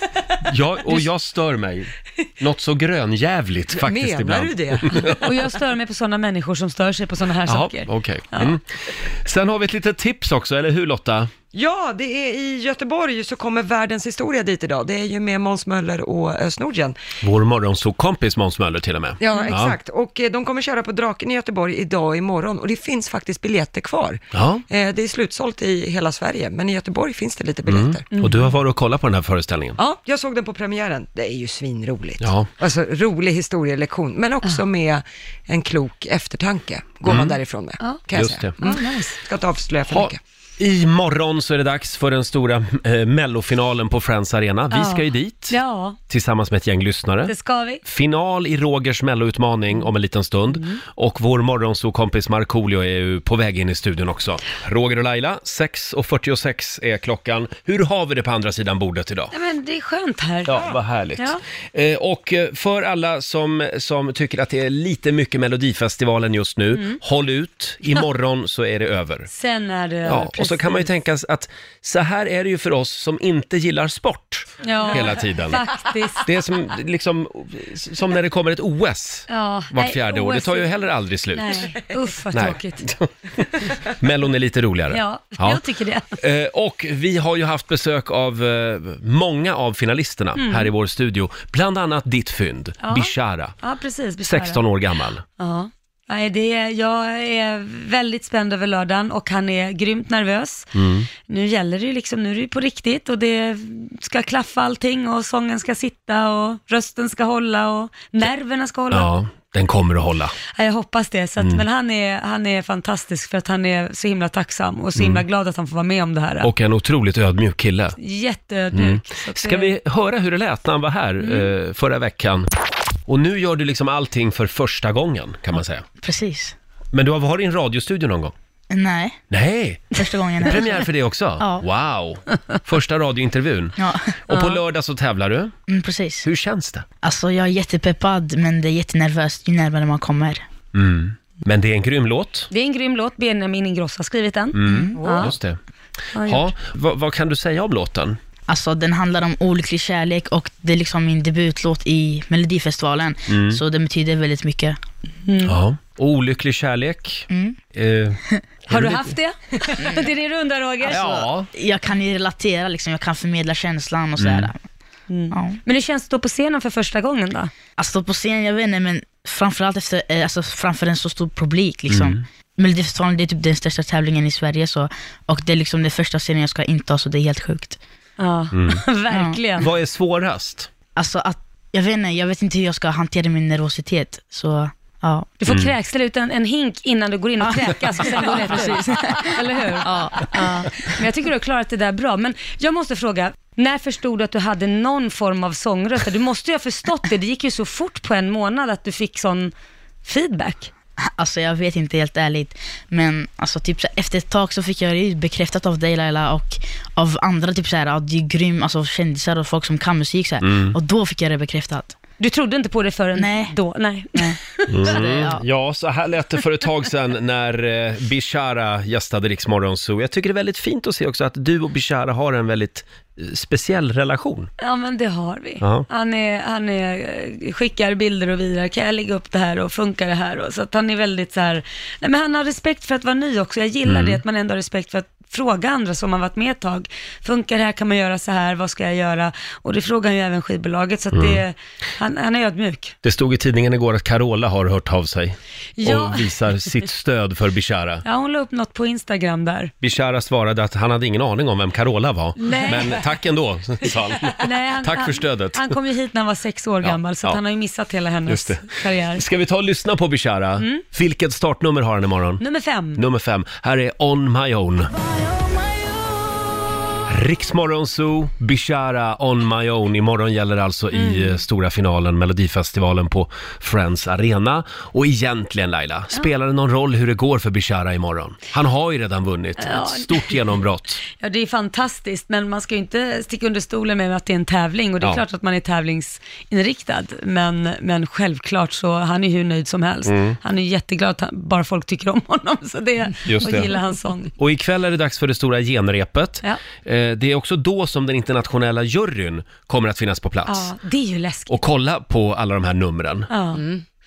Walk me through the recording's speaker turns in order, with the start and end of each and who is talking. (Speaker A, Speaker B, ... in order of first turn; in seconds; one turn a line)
Speaker A: 0.4-5.2
Speaker B: 3.7-5.2
Speaker C: 5.0-8.5
Speaker A: 7.5-11.3
Speaker B: 11.5-17.0
Speaker A: 17.2-19.8
Speaker B: 19.2-28.0
Speaker A: 24.3-24.6
Speaker A: 27.7-29.8
Speaker C: 28.1-28.5
Speaker B: 29.8-40.2
Speaker A: 32.2-32.5
Speaker A: 37.0-37.4
Speaker A: 38.1-38.5
Speaker C: 38.6-39.2
Speaker A: 39.9-45.6
Speaker C: 44.7-46.0
Speaker A: 46.1-47.3
Speaker C: 47.3-47.8
Speaker A: 47.8-59.3
Speaker C: 50.5-50.8
Speaker C: 59.3-61.4
Speaker A: 60.5-69.3
Speaker C: 69.3-70.9
Speaker A: 70.0-75.6
Speaker C: 74.6-76.3
Speaker A: 76.2-81.7
Speaker C: 79.3-80.7
Speaker C: 81.3-82.9
Speaker A: 82.3-85.6
Speaker C: 84.9-86.2
Speaker A: 86.1-93.5
Speaker C: 90.4-90.7
Speaker C: 92.8-94.6
Speaker A: 94.2-95.2
Speaker C: 95.4-100.7
Speaker A: 100.7-101.1
Speaker C: 101.3-109.1
Speaker A: 108.9-110.3
Speaker C: 110.5-116.5
Speaker A: 114.9-115.2
Speaker A: 116.4-118.0
Speaker C: 118.0-119.7
Speaker A: 118.7-122.5
Speaker C: 121.2-121.5
Speaker A: 123.1-125.8
Speaker D: 126.0-126.5
Speaker A: 126.9-128.3
Speaker D: 128.7-129.2
Speaker A: 129.3-129.8
Speaker D: 129.9-130.9
Speaker A: 130.5-135.5
Speaker D: 131.4-131.6
Speaker D: 133.8-134.2
Speaker D: 135.7-136.3
Speaker A: 136.2-136.8
Speaker D: 137.0-140.4
Speaker A: 140.7-142.5
Speaker C: 142.5-145.3
Speaker A: 144.5-145.6
Speaker D: 144.7-145.0
Speaker C: 146.1-146.5
Speaker A: 146.2-148.2
Speaker D: 148.5-154.8
Speaker A: 153.3-153.6
Speaker C: 155.3-155.6
Speaker A: 155.4-159.1
Speaker D: 157.3-157.6
Speaker C: 158.7-161.1
Speaker A: 160.8-161.5
Speaker D: 160.9-164.6
Speaker A: 164.2-164.5
Speaker C: 165.1-167.5
Speaker D: 165.3-165.6
Speaker D: 167.8-177.8
Speaker A: 171.9-172.2
Speaker C: 178.2-179.7
Speaker A: 178.5-178.8
Speaker D: 179.1-179.4
Speaker A: 179.6-180.7
Speaker D: 180.9-185.3
Speaker C: 185.4-199.5
Speaker A: 185.5-185.7
Speaker D: 187.4-190.7
Speaker C: 200.0-200.7
Speaker D: 201.2-211.9
Speaker A: 210.4-210.7
Speaker C: 212.2-214.6
Speaker D: 213.1-213.6
Speaker D: 214.1-215.4
Speaker A: 214.7-224.5
Speaker C: 224.6-242.9
Speaker A: 225.6-225.8
Speaker A: 233.8-234.2
Speaker A: 241.1-241.4
Speaker A: 243.0-248.0
Speaker C: 245.8-246.3
Speaker C: 248.0-249.7
Speaker A: 249.8-255.7
Speaker C: 252.4-253.0
Speaker C: 254.3-259.2
Speaker A: 256.8-257.4
Speaker A: 258.3-262.4
Speaker C: 262.4-263.0
Speaker A: 262.9-264.9
Speaker A: 267.1-281.0
Speaker C: 270.9-271.4
Speaker C: 279.6-280.5
Speaker C: 281.1-294.3
Speaker A: 290.1-290.4
Speaker A: 293.2-293.7
Speaker A: 294.4-300.7
Speaker C: 300.5-301.6
Speaker A: 301.5-303.3
Speaker C: 303.3-303.6
Speaker B: 303.5-303.8